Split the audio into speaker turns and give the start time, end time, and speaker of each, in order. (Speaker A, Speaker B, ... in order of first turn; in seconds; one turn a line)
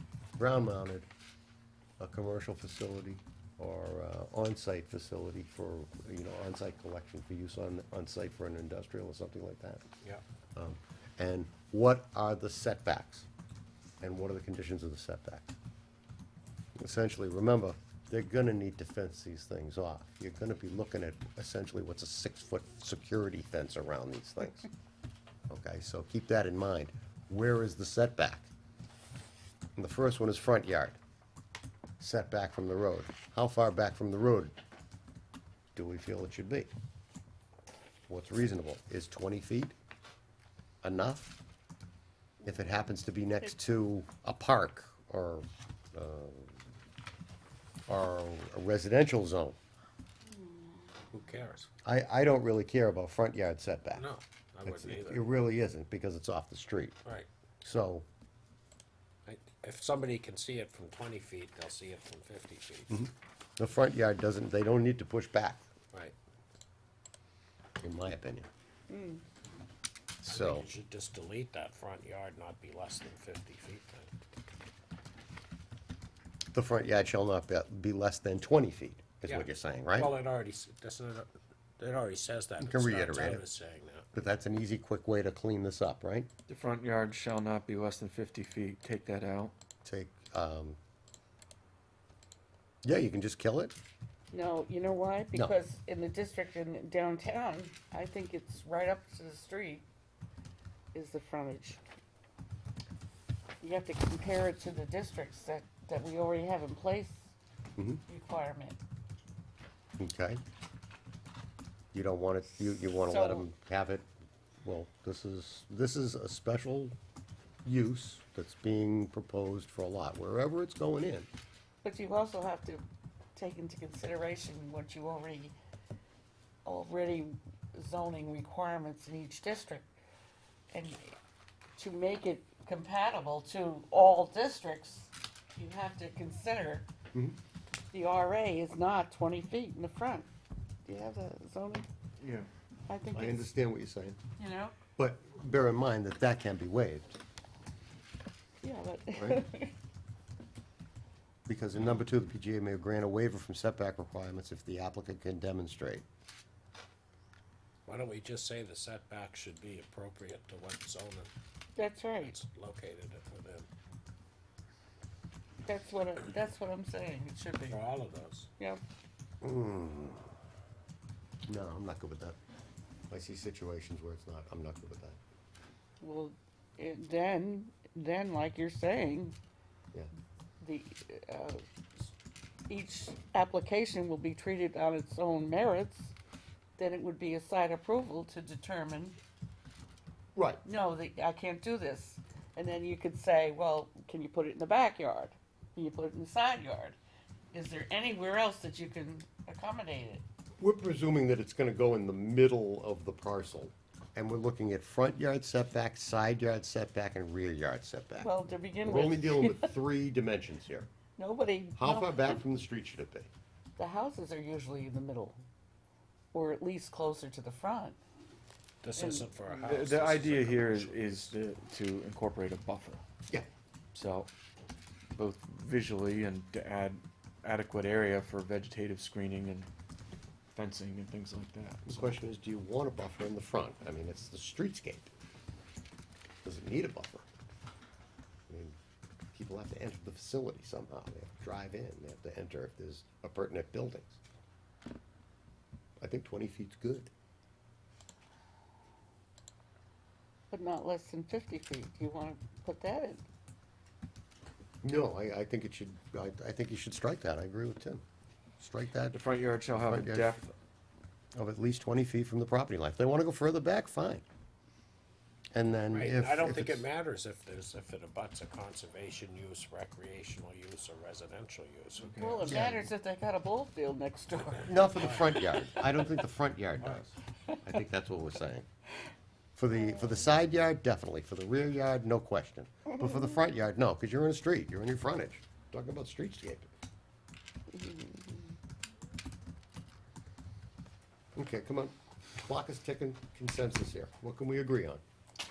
Speaker A: 0.4-1.1
Speaker A: 2.0-9.8
Speaker A: 10.6-13.3
Speaker A: 14.0-15.5
Speaker A: 16.8-24.7
Speaker A: 25.5-28.5
Speaker A: 29.8-31.0
Speaker A: 32.0-34.5
Speaker A: 35.8-36.7
Speaker A: 38.1-39.8
Speaker A: 40.8-41.4
Speaker A: 42.4-46.6
Speaker A: 47.9-49.6
Speaker B: 50.3-50.7
Speaker C: 51.1-51.7
Speaker A: 51.8-54.1
Speaker C: 53.9-55.3
Speaker A: 54.6-57.0
Speaker A: 57.6-58.1
Speaker C: 59.3-63.0
Speaker A: 62.9-65.6
Speaker A: 67.8-68.5
Speaker B: 68.9-69.2
Speaker A: 70.2-70.7
Speaker C: 70.3-74.1
Speaker A: 76.5-80.2
Speaker C: 79.3-84.1
Speaker A: 82.6-83.4
Speaker A: 84.1-86.3
Speaker D: 86.5-89.5
Speaker A: 89.8-90.8
Speaker A: 92.8-93.8
Speaker B: 94.3-99.9
Speaker B: 100.9-101.8
Speaker B: 103.6-107.3
Speaker B: 108.1-108.8
Speaker A: 110.0-110.4
Speaker A: 111.9-114.1
Speaker B: 112.6-113.5
Speaker A: 114.6-117.0
Speaker A: 117.6-121.3
Speaker B: 121.8-122.8
Speaker B: 123.3-125.6
Speaker B: 126.7-129.9
Speaker B: 130.7-131.1
Speaker B: 131.8-136.9
Speaker B: 137.9-140.3
Speaker B: 140.9-141.9
Speaker D: 142.2-142.5
Speaker B: 142.9-143.5
Speaker A: 143.1-144.2
Speaker B: 144.4-144.8
Speaker A: 145.0-147.2
Speaker B: 148.6-149.7
Speaker A: 149.2-149.4
Speaker A: 151.5-156.1
Speaker C: 157.9-161.3
Speaker B: 161.8-162.4
Speaker C: 162.2-163.7
Speaker B: 165.7-167.8
Speaker C: 167.7-168.5
Speaker A: 169.4-170.3
Speaker A: 171.5-172.4
Speaker A: 173.1-175.2
Speaker B: 176.0-179.4
Speaker B: 180.6-182.1
Speaker B: 182.7-186.2
Speaker B: 186.8-189.2
Speaker A: 190.3-190.6
Speaker B: 190.6-197.0
Speaker B: 197.5-200.2
Speaker A: 200.6-208.3
Speaker B: 208.2-209.7
Speaker A: 208.8-210.9
Speaker B: 211.2-212.4
Speaker A: 211.8-213.3
Speaker B: 213.8-215.4
Speaker B: 216.3-218.0
Speaker C: 218.8-221.3
Speaker B: 219.0-219.3
Speaker D: 219.6-223.0
Speaker D: 223.9-224.3
Speaker D: 225.2-229.7
Speaker D: 230.5-232.1
Speaker A: 231.9-235.1
Speaker A: 236.4-237.3
Speaker A: 238.5-238.8
Speaker A: 239.3-244.2
Speaker A: 246.0-247.1
Speaker B: 250.5-253.2
Speaker A: 254.8-258.0
Speaker A: 258.6-260.4
Speaker D: 259.1-260.5
Speaker A: 261.4-264.2
Speaker A: 265.5-266.9
Speaker C: 265.9-272.5
Speaker D: 272.0-272.6
Speaker B: 272.2-274.7
Speaker A: 272.5-272.8
Speaker A: 274.6-278.7
Speaker C: 274.9-275.9
Speaker A: 279.6-286.7
Speaker B: 279.8-280.3
Speaker B: 287.7-288.6
Speaker A: 291.4-295.0